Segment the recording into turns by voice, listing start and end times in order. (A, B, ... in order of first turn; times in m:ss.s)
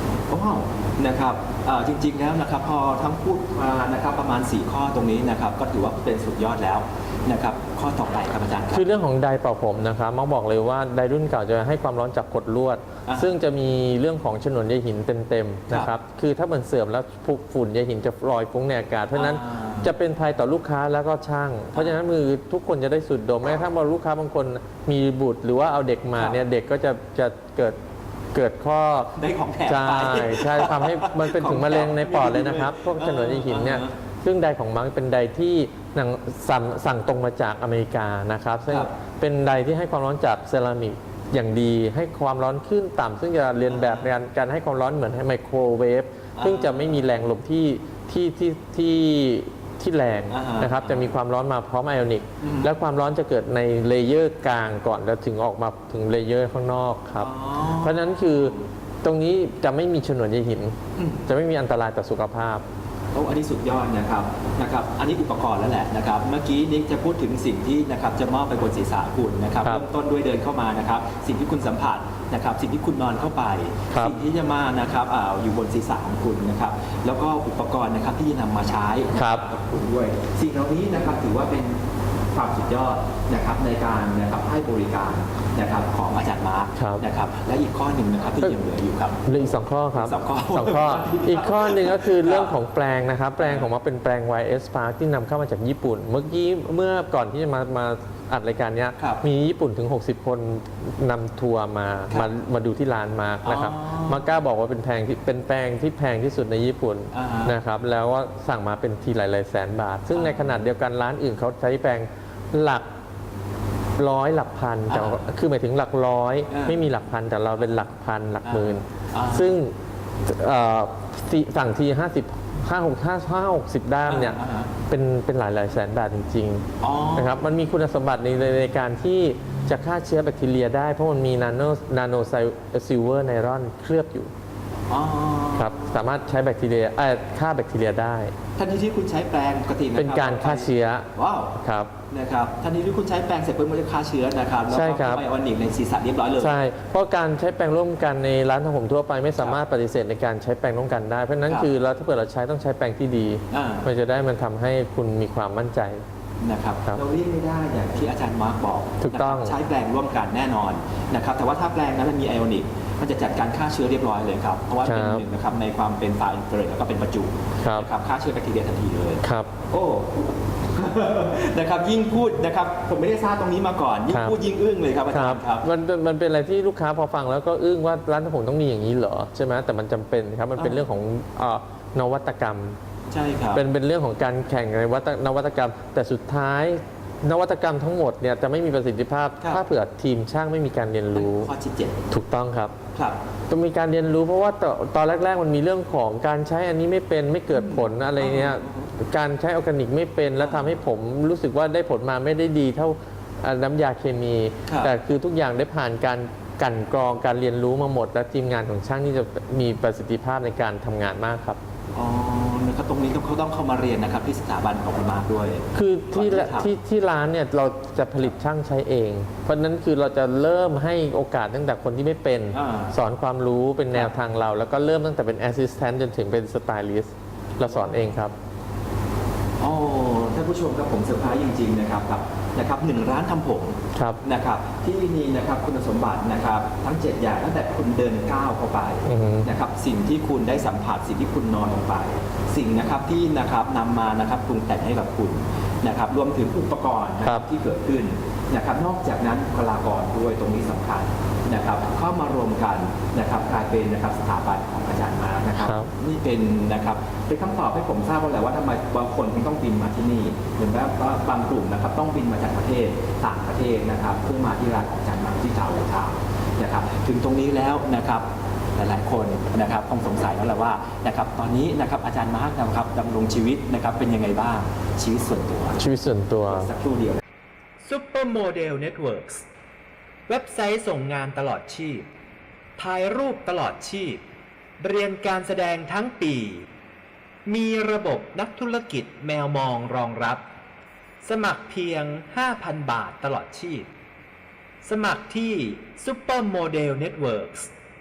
0:00.3-0:08.9 A
0:08.7-0:27.8 B
0:13.0-0:13.3 A
0:19.1-0:19.9 A
0:21.7-0:22.0 A
0:28.3-0:29.1 B
0:29.1-0:33.9 A
0:29.6-1:02.6 B
0:43.6-0:44.1 A
0:46.4-0:47.0 A
0:50.3-0:51.1 A
0:52.4-0:52.8 A
0:57.2-0:58.5 A
1:01.0-1:01.3 A
1:03.1-1:21.8 A
1:13.9-1:14.2 B
1:19.1-1:19.4 B
1:22.3-1:29.2 A
1:26.8-1:27.0 B
1:29.2-1:52.8 B
1:29.9-1:32.6 A
1:33.4-1:33.7 A
1:39.0-1:39.2 A
1:43.4-1:44.3 A
1:47.1-1:47.6 A
1:50.1-1:50.6 A
1:54.0-1:59.7 B
1:54.9-1:55.2 A
1:56.5-1:56.9 A
1:58.4-1:59.6 A
2:00.2-2:14.3 B
2:04.0-2:04.7 A
2:06.8-2:07.4 A
2:14.9-2:15.9 A
2:15.6-2:18.3 B
2:18.6-2:21.6 A
2:19.9-2:21.9 B
2:22.1-2:26.5 A
2:24.7-2:25.2 B
2:26.4-2:36.0 B
2:33.5-2:33.9 A
2:36.4-2:55.7 A
2:39.0-2:39.6 B
2:44.8-2:45.2 B
2:47.6-2:47.9 B
2:49.2-2:49.5 B
2:54.1-2:54.4 B
2:55.1-3:02.8 B
3:00.6-3:00.9 A
3:03.1-3:03.6 A
3:03.5-3:11.5 B
3:09.4-3:09.6 A
3:11.1-3:12.0 A
3:12.1-3:12.7 B
3:12.9-3:13.2 A
3:13.5-3:31.6 B
3:17.5-3:18.9 A
3:20.4-3:20.8 A
3:24.6-3:24.9 A
3:31.9-3:36.7 A
3:35.7-3:48.3 B
3:42.5-3:43.0 A
3:47.6-3:48.1 A
3:49.6-4:35.8 A
3:53.9-3:54.2 B
3:59.0-3:59.5 B
4:15.6-4:15.9 B
4:35.8-4:36.7 B
4:36.4-4:37.2 A
4:37.8-4:39.4 C
4:40.3-4:42.0 C
4:42.8-4:44.2 C
4:44.8-4:46.7 C
4:47.4-4:50.4 C
4:51.2-4:53.9 C
4:54.8-4:57.7 C